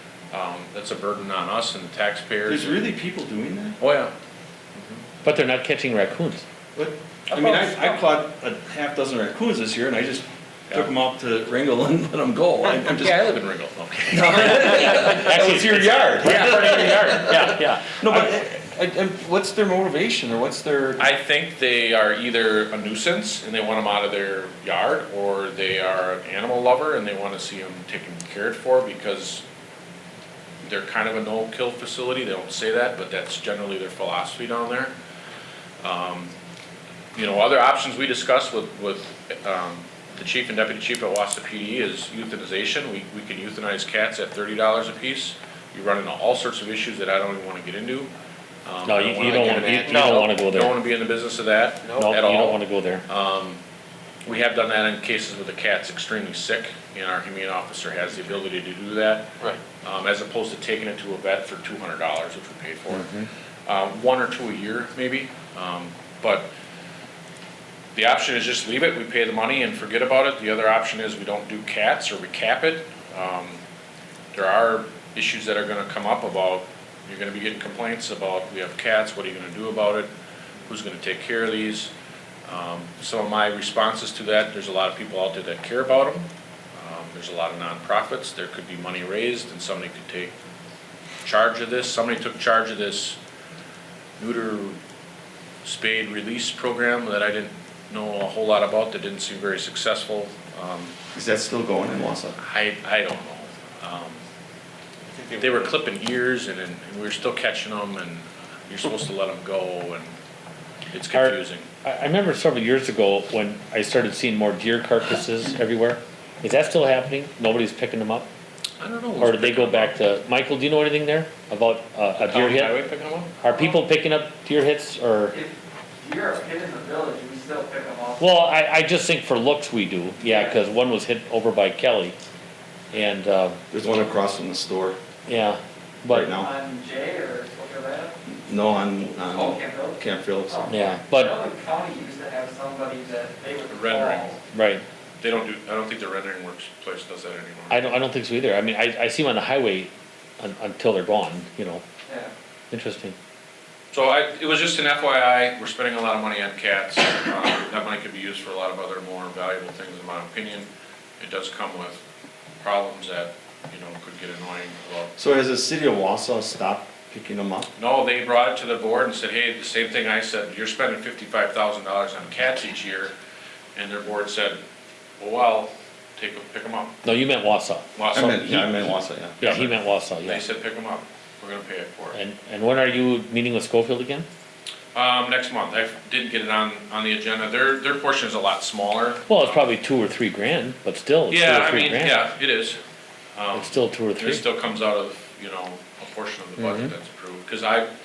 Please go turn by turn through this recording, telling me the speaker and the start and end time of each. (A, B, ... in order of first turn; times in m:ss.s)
0:00.3-0:02.8 A
0:02.4-0:03.8 B
0:03.8-0:04.1 A
0:05.2-0:06.4 C
0:06.7-0:13.2 B
0:12.9-0:15.3 A
0:14.1-0:21.1 B
0:15.1-0:18.3 C
0:21.0-0:29.4 A
0:30.6-0:34.9 A
0:35.8-0:36.3 A
0:37.1-0:48.1 A
0:48.6-0:53.6 A
0:48.8-0:50.8 C
0:49.7-0:50.2 D
0:52.0-0:53.0 C
0:54.2-0:59.3 A
0:59.8-1:03.1 A
1:02.9-1:03.3 C
1:03.7-1:06.5 A
1:07.9-1:13.6 A
1:14.3-1:20.1 A
1:20.7-1:21.9 A
1:22.5-1:30.3 A
1:31.2-1:33.2 A
1:34.2-1:34.8 A
1:35.6-1:40.9 A
1:41.1-1:42.4 B
1:42.4-1:44.2 A
1:45.1-1:45.6 B
1:45.4-1:50.2 A
1:50.9-1:51.7 A
1:51.1-1:58.3 C
1:58.8-2:00.0 A
1:59.2-2:02.8 C
2:02.2-2:03.3 A
2:03.4-2:05.3 C
2:05.3-2:08.2 D
2:08.2-2:12.2 C
2:12.9-2:13.6 C
2:13.7-2:15.0 B
2:15.3-2:16.3 C
2:16.1-2:16.5 B
2:16.4-2:18.1 D
2:18.3-2:20.7 B
2:19.3-2:20.0 D
2:20.7-2:21.4 C
2:21.2-2:24.4 D
2:23.7-2:24.3 A
2:24.5-2:24.8 C
2:25.2-2:27.9 A
2:27.7-2:31.8 C
2:32.7-2:33.2 C
2:33.9-2:40.7 A
2:41.2-2:42.0 A
2:42.6-2:45.1 A
2:45.2-2:47.7 B
2:47.8-2:53.1 A
2:53.7-2:54.6 A
2:55.2-2:57.0 A
2:57.0-2:57.9 C
2:58.0-2:58.7 A
2:58.1-2:59.4 B
2:59.4-3:00.4 C
2:59.4-3:02.2 A
3:02.1-3:04.3 C
3:04.9-3:09.7 A
3:09.3-3:12.2 C
3:11.3-3:12.8 A
3:13.3-3:17.9 A
3:13.5-3:14.4 C
3:16.6-3:16.9 C